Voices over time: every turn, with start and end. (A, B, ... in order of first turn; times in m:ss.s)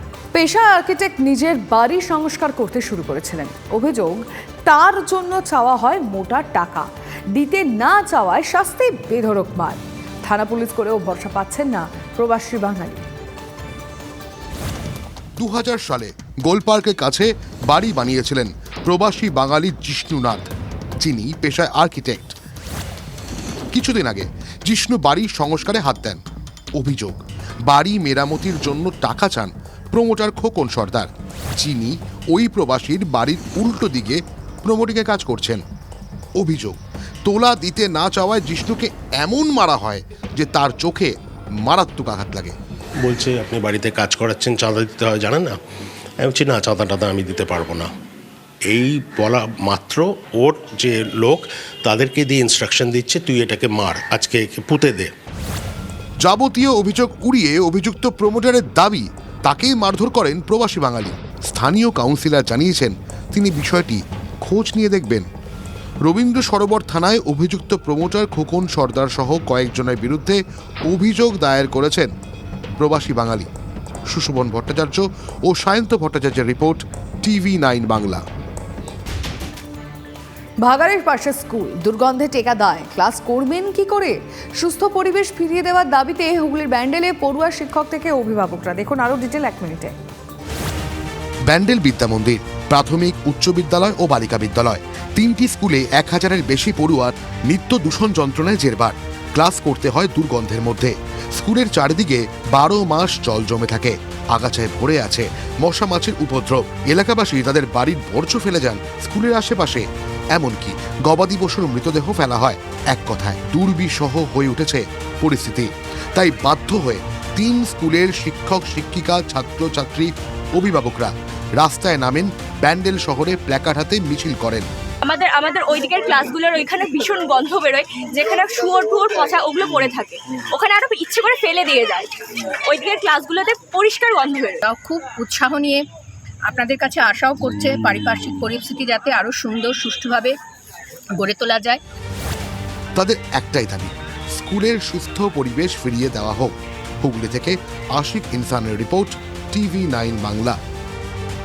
0:00.3-0:13.0 A
0:15.4-0:20.5 B
0:21.0-0:22.3 B
0:23.7-0:26.2 B
0:26.8-0:35.6 B
0:36.4-0:41.1 B
0:41.6-0:42.5 B
0:43.0-0:45.6 C
0:46.2-0:47.9 C
0:48.7-0:55.1 C
0:56.2-1:05.3 B
1:06.0-1:12.1 B
1:12.8-1:13.5 B
1:14.1-1:18.2 B
1:20.6-1:29.9 A
1:31.5-2:04.6 B
2:05.0-2:14.6 D
2:14.6-2:15.8 E
2:16.4-2:20.4 E
2:21.1-2:21.8 E
2:23.0-2:30.6 B